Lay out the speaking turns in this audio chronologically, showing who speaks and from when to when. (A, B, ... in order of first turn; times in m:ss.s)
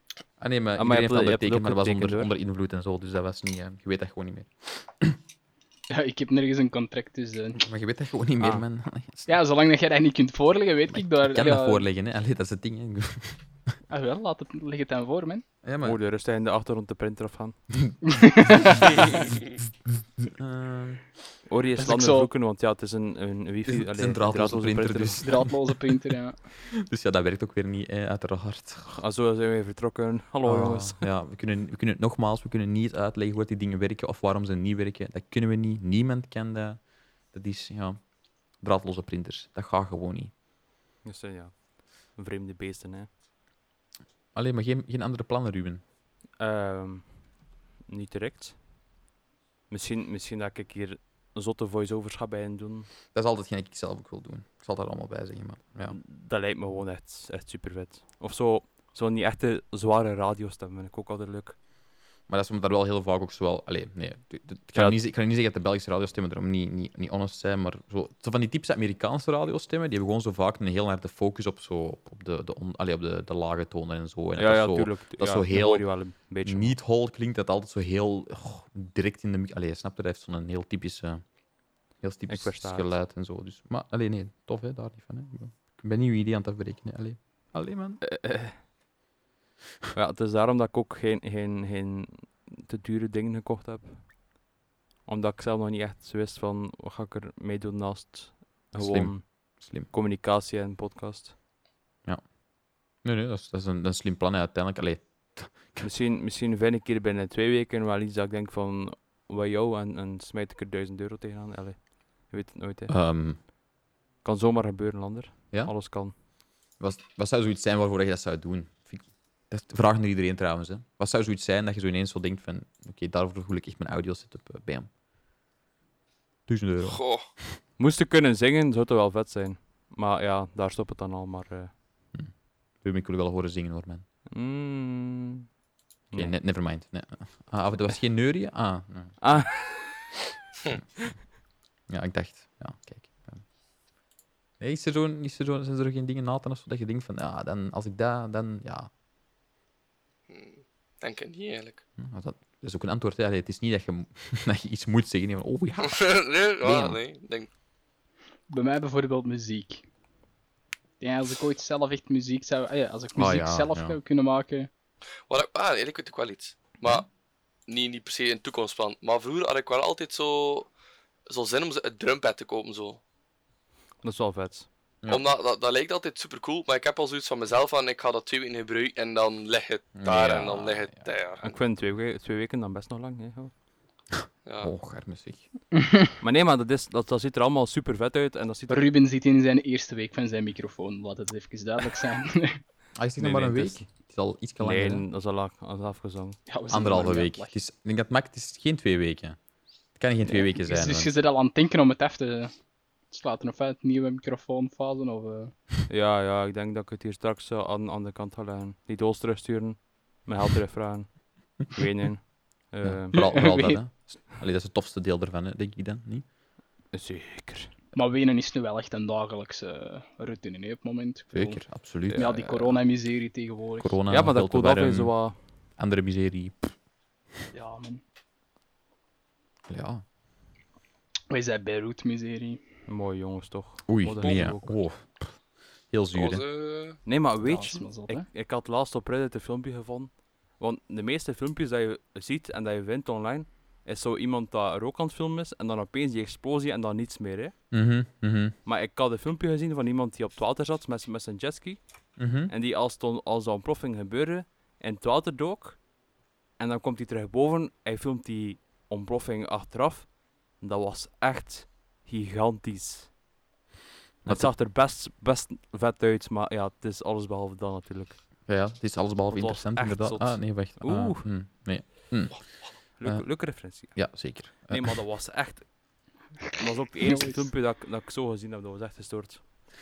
0:00.4-0:05.2 A
0:00.8-0:02.3 B
0:05.9-0:07.6 C
0:07.6-0:09.3 A
0:09.2-0:11.8 C
0:10.9-0:13.4 A
0:13.9-0:15.4 C
0:15.6-0:16.0 A
0:15.8-0:17.7 B
0:17.7-0:18.7 A
0:18.0-0:18.8 C
0:20.2-0:21.0 A
0:21.5-0:25.3 B
0:21.8-0:22.3 C
0:23.6-0:25.9 A
0:25.2-0:26.4 C
0:26.7-0:29.0 A
0:28.9-0:31.0 B
0:30.4-0:40.3 A
0:41.0-0:43.1 B
0:44.3-0:45.8 A
0:46.4-0:47.3 B
0:47.8-0:48.6 B
0:49.7-0:52.9 B
0:53.1-0:56.0 A
0:55.9-1:01.6 B
1:02.3-1:21.3 A
1:14.4-1:16.8 B
1:22.0-1:28.0 A
1:22.3-1:22.9 B
1:28.0-1:28.6 B
1:29.9-1:34.1 B
1:35.0-1:41.3 B
1:38.7-1:39.9 A
1:42.0-1:42.3 A
1:43.0-1:45.9 A
1:45.8-1:52.9 B
1:52.9-1:53.4 A
1:54.2-1:56.1 B
1:55.5-1:55.8 A
1:56.8-2:04.9 A
2:06.4-2:07.6 A
2:06.8-2:07.3 D
2:07.8-2:11.7 B
2:12.1-2:14.0 A
2:14.3-2:15.5 B
2:16.1-2:19.7 A
2:19.2-2:20.1 B
2:21.9-2:23.4 A
2:24.6-2:28.9 A
2:30.3-2:31.8 D
2:32.0-2:37.0 A
2:35.8-2:37.5 D
2:38.5-2:39.8 C
2:41.0-2:44.7 C
2:43.1-2:44.0 A
2:45.3-2:47.1 D
2:47.6-2:50.7 D
2:51.3-2:53.0 D
2:54.0-2:54.7 B
2:55.1-3:01.6 D
2:59.9-3:01.1 A
3:01.4-3:03.5 B
3:04.4-3:04.7 D
3:04.6-3:05.4 A
3:06.2-3:08.9 B
3:08.7-3:12.6 C
3:12.9-3:15.0 A
3:13.2-3:13.9 B
3:14.6-3:16.4 B
3:16.5-3:17.5 C
3:16.7-3:19.4 A
3:19.9-3:21.1 A
3:20.2-3:22.6 C
3:23.1-3:25.6 C
3:25.9-3:33.5 B
3:32.8-3:36.2 A
3:33.1-3:33.8 C
3:36.9-3:37.7 B
3:37.9-3:44.0 C
3:41.3-3:42.7 A
3:42.1-3:42.5 B
3:43.8-3:45.2 A
3:44.1-3:45.4 B
3:45.7-3:46.7 A
3:47.5-3:48.0 C
3:49.7-3:50.0 A
3:51.3-3:52.6 C
3:52.9-3:54.8 B
3:53.8-3:56.4 A
3:56.1-3:57.0 D
3:57.0-4:07.6 B
3:57.4-3:58.3 C
4:07.7-4:08.6 A
4:08.6-4:11.8 B
4:12.2-4:12.5 A
4:12.3-4:15.9 B
4:16.6-4:23.1 B
4:24.2-4:24.5 A
4:24.2-4:28.4 B
4:28.4-4:34.9 A
4:29.3-4:31.3 B
4:33.0-4:35.9 B
4:36.5-4:39.4 B
4:37.0-4:37.4 C